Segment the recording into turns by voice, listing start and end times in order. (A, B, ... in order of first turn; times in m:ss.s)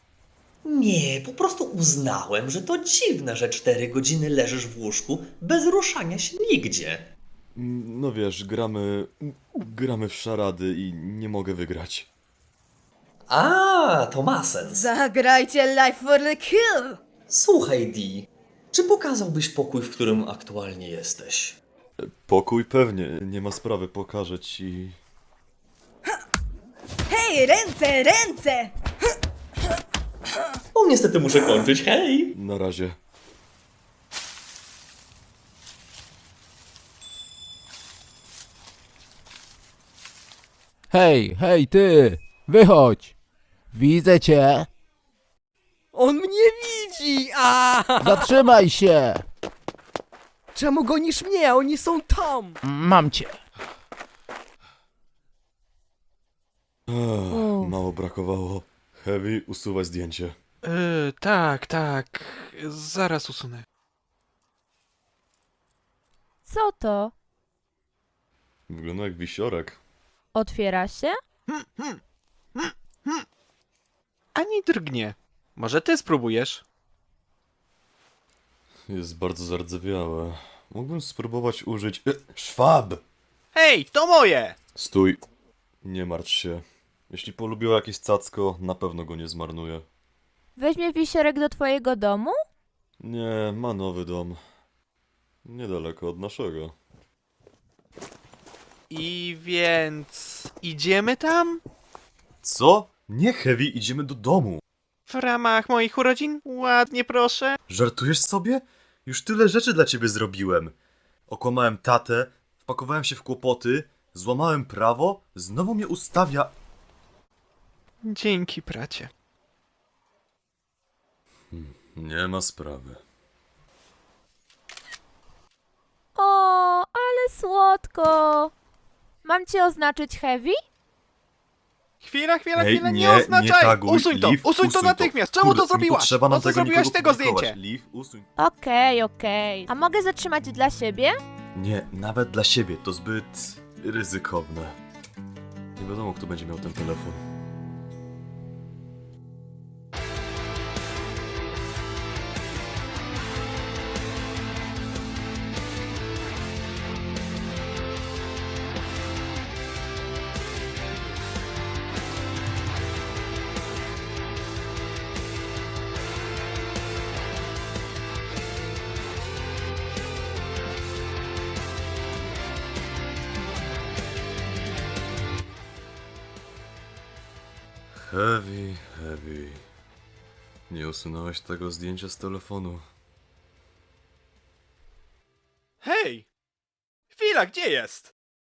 0:00.6-0:07.1 A
0:07.5-0:12.1 B
0:13.3-0:14.9 A
0:14.6-0:17.0 C
0:17.3-0:21.6 A
0:22.0-0:25.0 B
0:27.1-0:28.7 C
0:30.7-0:32.3 A
0:32.3-0:33.0 B
0:40.9-0:43.1 D
0:43.7-0:44.7 D
0:45.9-0:48.3 E
0:48.0-0:49.2 D
0:50.5-0:52.6 E
0:52.6-0:53.3 D
0:56.9-1:00.4 B
0:57.3-0:57.7 F
1:00.6-1:03.6 G
1:06.4-1:07.1 F
1:08.7-1:09.8 B
1:10.3-1:11.2 F
1:11.5-1:12.0 G
1:12.5-1:13.2 G
1:14.3-1:16.6 G
1:18.9-1:23.0 B
1:23.5-1:24.6 G
1:24.8-1:25.2 B
1:25.8-1:29.8 B
1:30.6-1:32.4 F
1:33.0-1:34.4 B
1:35.4-1:36.7 B
1:38.9-1:41.6 G
1:42.4-1:44.6 B
1:45.1-1:47.6 G
1:47.7-1:50.7 B
1:51.3-1:56.5 B
1:58.0-1:59.1 G
2:01.5-2:03.0 B
2:06.1-2:08.5 F
2:09.2-2:10.6 F
2:12.0-2:17.6 G
2:12.5-2:18.2 B
2:18.4-2:21.2 F
2:21.5-2:24.8 B
2:25.8-2:27.2 B
2:58.0-2:59.6 B
3:00.7-3:02.8 B
3:05.8-3:06.2 G
3:07.1-3:08.1 G